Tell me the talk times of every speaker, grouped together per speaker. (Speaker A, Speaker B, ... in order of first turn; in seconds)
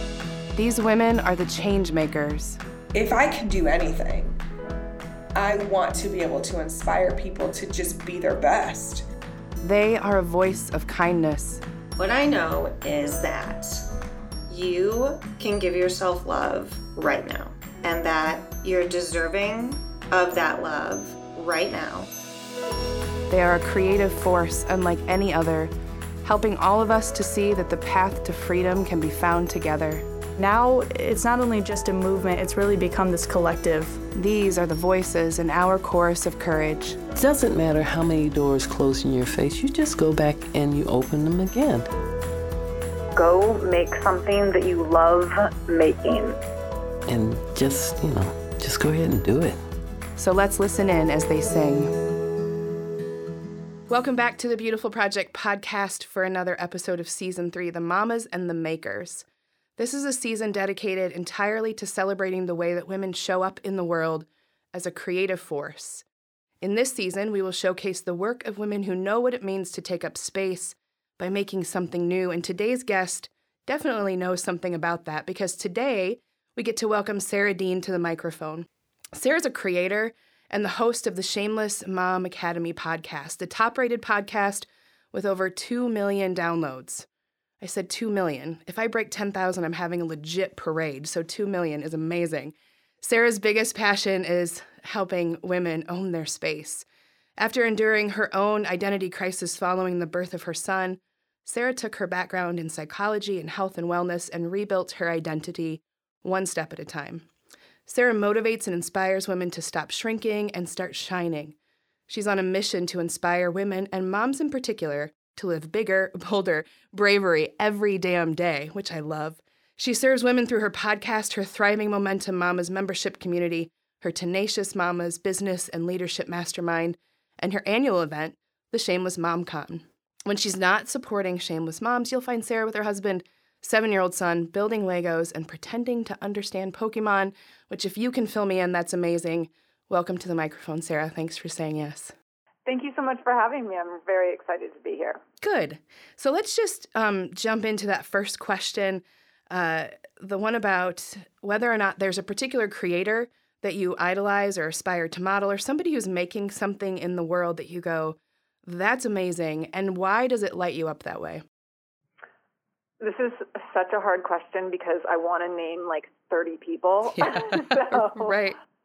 Speaker A: 0.5-2.6, 9.6-11.6, 23.3-25.7, 26.2-30.1, 34.1-37.0, 50.2-51.9, 53.9-59.2, 59.8-66.0, 66.6-87.1, 87.6-96.9, 97.4-107.3, 107.9-111.6, 112.1-142.2, 145.4-161.4, 167.2-168.6
Speaker B: 2.9-4.4, 5.3-9.1
Speaker C: 12.0-13.8, 14.5-22.1
Speaker D: 30.4-34.0
Speaker E: 37.2-41.9, 47.1-49.6
Speaker F: 43.1-46.4, 142.7-145.2, 163.0-168.3